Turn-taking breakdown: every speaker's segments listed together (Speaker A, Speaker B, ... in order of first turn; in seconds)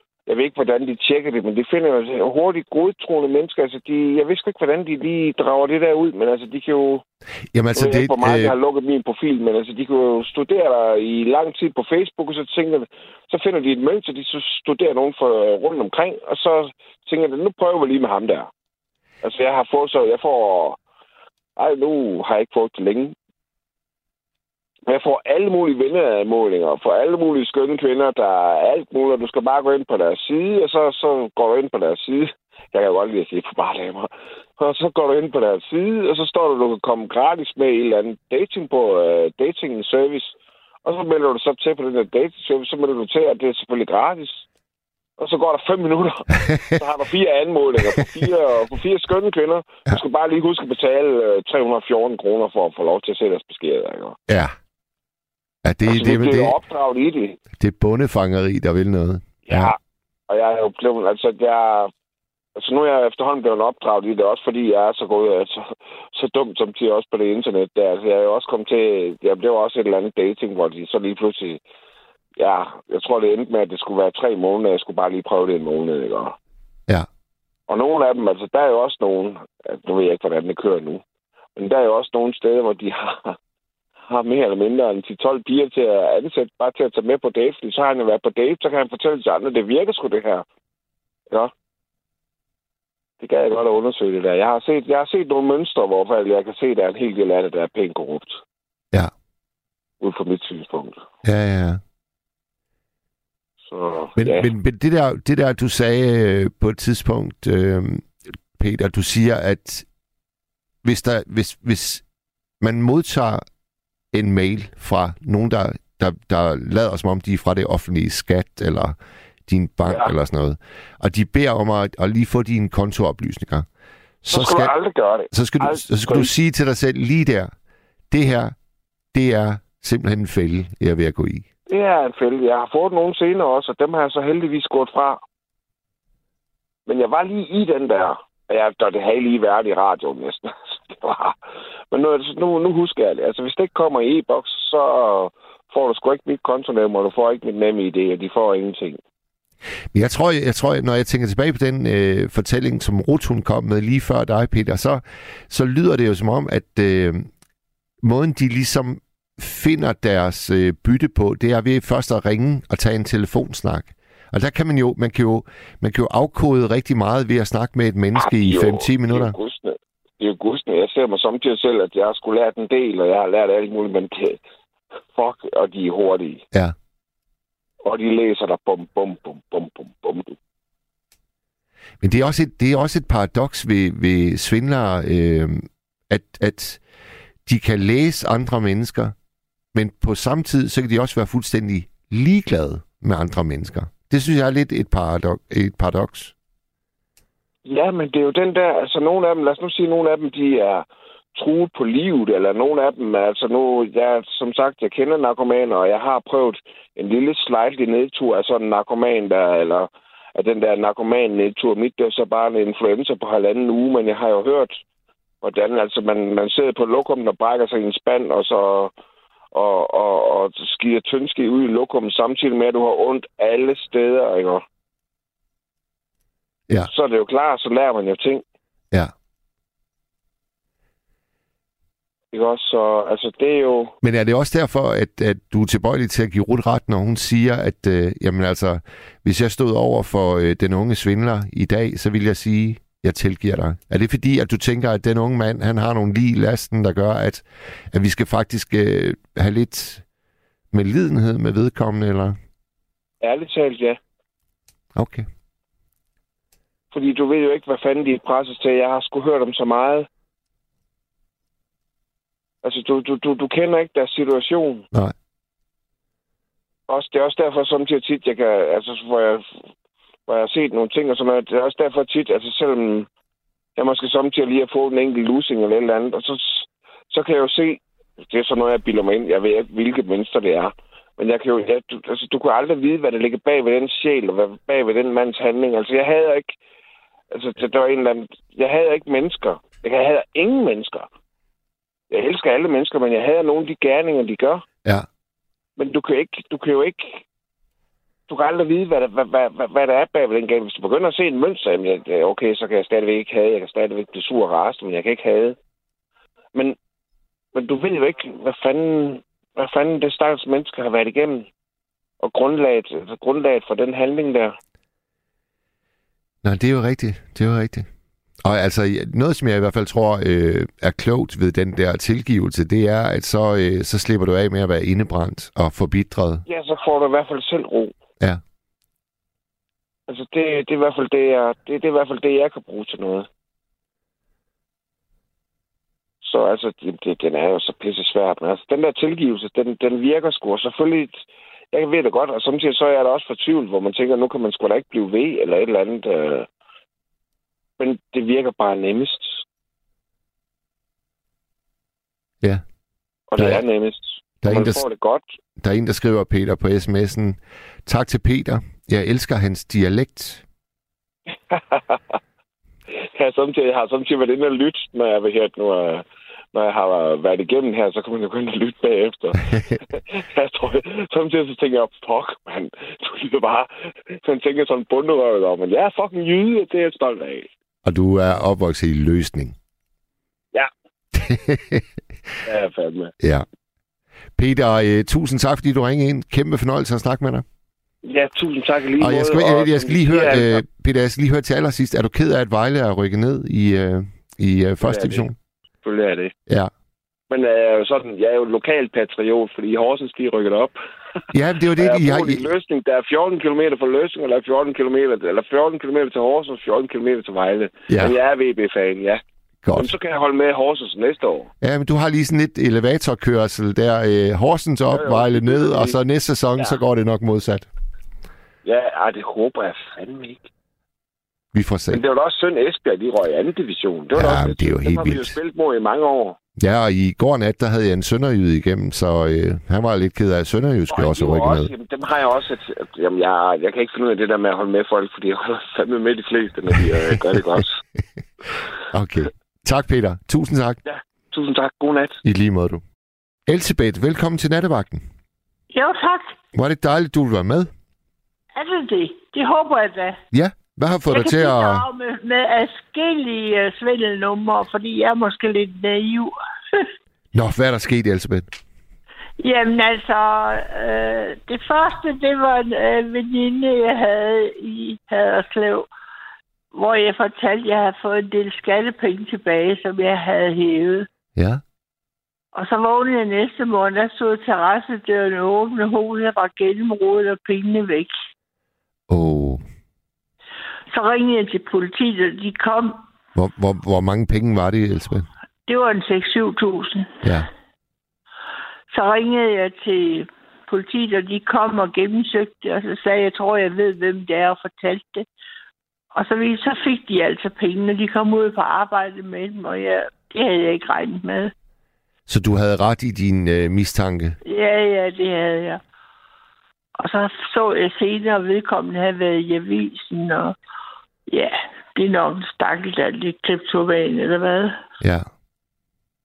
Speaker A: 0.2-7.0, 7.7-18.5, 19.2-20.8, 21.6-23.1, 24.9-40.3, 40.8-44.4, 45.2-54.2, 55.8-57.4, 59.4-59.8, 60.3-61.9, 62.5-71.6, 72.4-76.3, 77.7-81.0, 81.5-83.4, 84.1-90.4, 93.2-98.4, 100.0-101.0, 103.7-104.5, 124.3-126.3, 131.7-135.2, 136.8-141.3, 141.9-149.0, 168.1-174.4, 175.1-176.4, 177.8-180.3, 197.6-214.8, 215.4-218.9, 219.5-224.6, 226.8-228.4, 232.3-233.9, 253.2-254.0, 256.9-260.1, 262.6-264.9, 266.9-269.5, 270.3-273.1, 273.8-286.6, 287.3-291.1, 292.1-294.6, 295.8-297.2, 298.3-305.6, 307.5-311.5, 312.2-314.6, 326.4-327.9, 330.1-333.3, 336.2-341.2, 341.7-346.5, 347.8-349.4, 353.3-355.2, 361.5-362.2, 362.9-377.5, 382.4-383.1, 388.0-390.6, 394.8-395.3, 395.8-396.3, 397.3-400.8, 401.8-409.2, 409.7-411.5, 414.9-415.9, 418.6-420.5, 421.9-426.4, 430.9-437.8, 440.8-442.2
Speaker B: 7.5-8.5, 54.3-54.5, 55.6-56.5, 57.6-59.7, 101.2-101.8, 104.2-109.8, 110.8-112.0, 112.6-113.4, 114.1-123.7, 124.2-124.7, 125.3-127.5, 128.1-128.5, 129.1-131.4, 149.9-157.3, 158.0-169.3, 182.0-186.8, 187.4-189.1, 189.7-196.3, 234.0-250.0, 250.7-252.4, 254.9-255.2, 316.4-317.9, 318.4-326.4, 353.4-353.6, 354.4-354.8, 355.6-360.4, 377.8-379.5, 381.1-381.9, 384.4-387.4, 389.0-395.3, 401.3-402.5, 407.9-408.1, 409.6-409.9, 411.6-417.7, 421.5-422.0, 424.1-425.4, 426.6-431.7, 438.9-440.8, 442.2-442.8, 443.5-445.0, 446.5-447.7, 450.3-451.9, 457.3-458.5, 471.4-471.6, 479.1-479.6, 483.3-485.3, 487.2-487.5, 502.3-504.4, 515.0-515.3
Speaker C: 445.7-446.3, 448.6-450.2, 451.1-456.3, 459.4-465.9, 466.7-471.1, 472.5-478.1, 480.9-482.9, 485.7-487.2, 488.9-495.2, 496.1-501.5, 504.4-505.8, 507.0-510.5, 511.3-514.8